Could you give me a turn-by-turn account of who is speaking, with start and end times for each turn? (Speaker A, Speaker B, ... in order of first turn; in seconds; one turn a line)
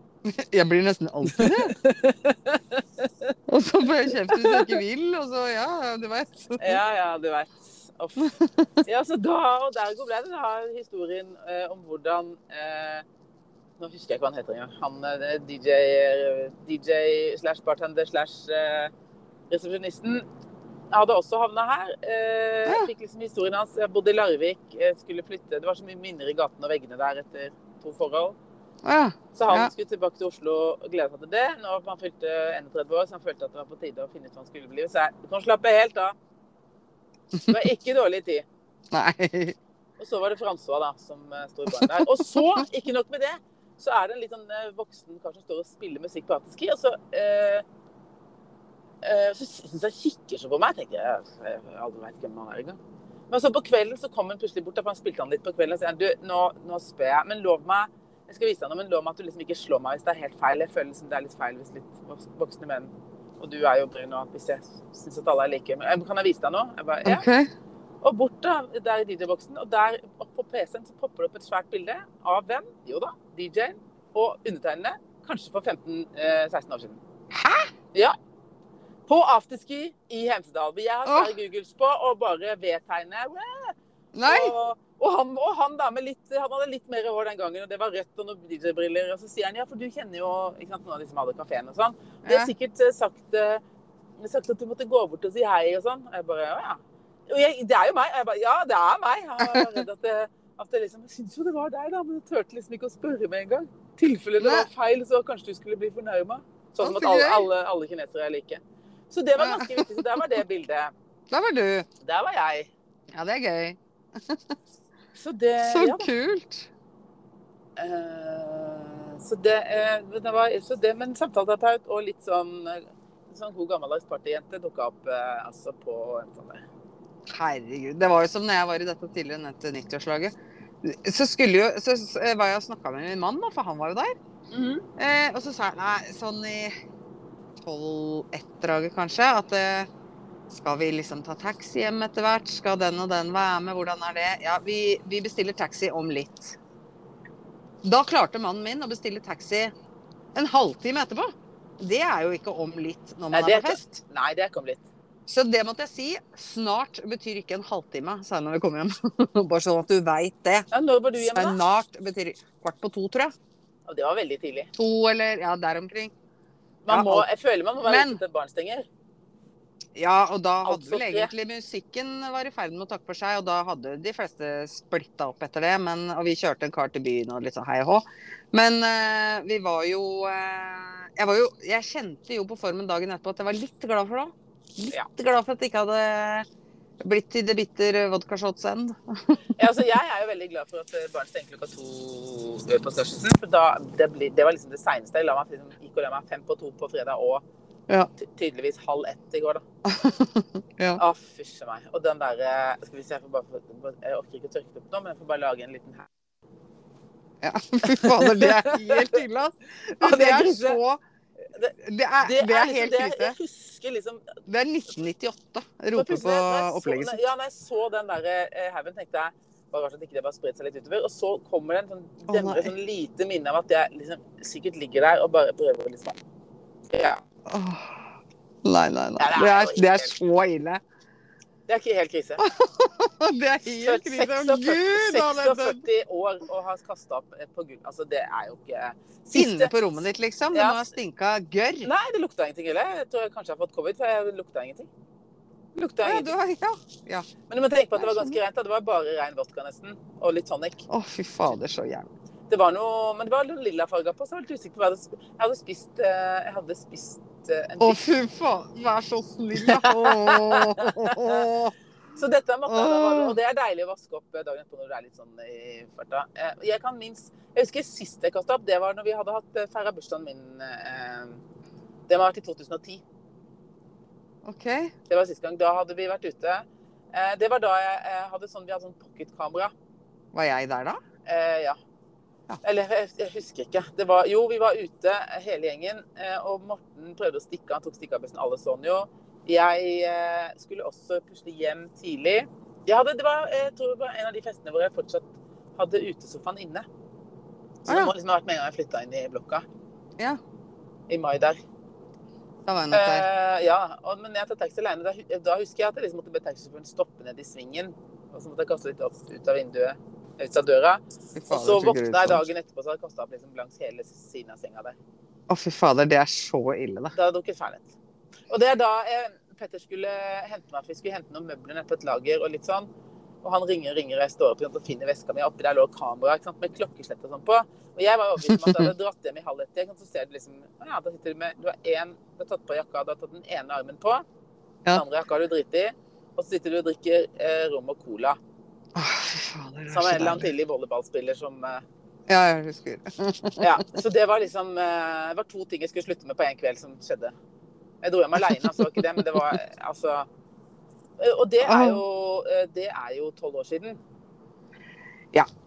Speaker A: 0.2-1.8
Speaker B: 1.3-3.3
Speaker A: 3.5-6.8
Speaker B: 4.1-4.8
Speaker B: 6.6-13.1
Speaker B: 13.8-18.9
Speaker B: 19.5-20.2
Speaker B: 20.9-28.4
Speaker A: 28.8-29.7
Speaker B: 29.4-36.1
Speaker B: 37.5-38.5
Speaker A: 38.9-39.6
Speaker B: 40.0-47.6
Speaker A: 41.7-42.6
Speaker B: 49.0-52.8
Speaker B: 53.3-67.2
Speaker A: 67.0-67.5
Speaker B: 68.0-77.0
Speaker A: 77.3-77.7
Speaker B: 79.1-93.6
Speaker A: 81.0-81.3
Speaker A: 84.1-84.5
Speaker A: 92.2-92.5
Speaker B: 94.2-110.9
Speaker A: 99.4-99.8
Speaker A: 104.4-104.7
Speaker A: 106.8-107.5
Speaker A: 109.4-110.2
Speaker A: 111.3-111.9
Speaker B: 112.0-112.7
Speaker A: 113.1-114.4
Speaker B: 115.2-116.1
Speaker A: 115.6-116.7
Speaker B: 117.8-126.7
Speaker A: 127.3-134.2
Speaker B: 134.5-134.9
Speaker A: 135.0-136.7
Speaker A: 137.6-139.9
Speaker A: 140.5-146.6
Speaker A: 147.8-149.7
Speaker A: 150.3-154.0
Speaker B: 153.3-154.8
Speaker A: 155.3-160.7
Speaker B: 160.7-161.6
Speaker A: 161.2-163.3
Speaker B: 163.9-164.7
Speaker A: 164.8-166.1
Speaker B: 166.8-168.9
Speaker A: 166.9-167.3
Speaker A: 167.8-168.2
Speaker A: 169.9-186.5
Speaker B: 170.6-171.3
Speaker A: 187.0-189.4
Speaker B: 189.6-197.4
Speaker B: 198.2-199.7
Speaker A: 199.8-201.0
Speaker B: 201.0-206.1
Speaker A: 207.4-211.0
Speaker B: 207.8-209.2
Speaker B: 210.0-210.8
Speaker B: 211.5-214.3
Speaker A: 211.8-213.4
Speaker A: 214.5-217.2
Speaker B: 215.9-226.2
Speaker A: 222.3-222.7
Speaker B: 226.9-227.2
Speaker A: 227.5-228.1
Speaker A: 228.6-230.8
Speaker B: 229.2-230.1
Speaker B: 231.7-232.5
Speaker A: 232.4-235.8
Speaker B: 233.8-239.7
Speaker A: 239.3-241.9
Speaker B: 240.5-240.8
Speaker B: 241.8-244.9
Speaker B: 245.8-246.3
Speaker A: 246.0-247.3
Speaker B: 247.5-250.8
Speaker A: 248.0-248.4
Speaker A: 250.9-252.1
Speaker B: 252.5-258.1
Speaker A: 257.8-261.7
Speaker B: 259.6-261.5
Speaker B: 262.2-271.4
Speaker A: 262.7-263.4
Speaker B: 272.1-273.0
Speaker A: 274.4-274.9
Speaker B: 275.1-279.7
Speaker A: 280.3-281.0
Speaker B: 281.3-281.8
Speaker B: 282.6-296.9
Speaker B: 297.9-299.6
Speaker A: 297.9-298.1
Speaker B: 301.1-301.6
Speaker A: 302.7-303.3
Speaker B: 302.9-315.0
Speaker A: 311.4-312.4
Speaker A: 315.5-317.1
Speaker B: 317.1-317.9
Speaker B: 318.5-322.9
Speaker B: 323.4-334.2
Speaker A: 328.5-328.9
Speaker B: 334.9-338.4
Speaker A: 338.9-340.5
Speaker B: 339.9-341.8
Speaker A: 342.3-343.8
Speaker B: 343.6-347.3
Speaker B: 348.0-350.3
Speaker A: 348.4-349.5
Speaker B: 351.2-354.0
Speaker A: 351.6-352.0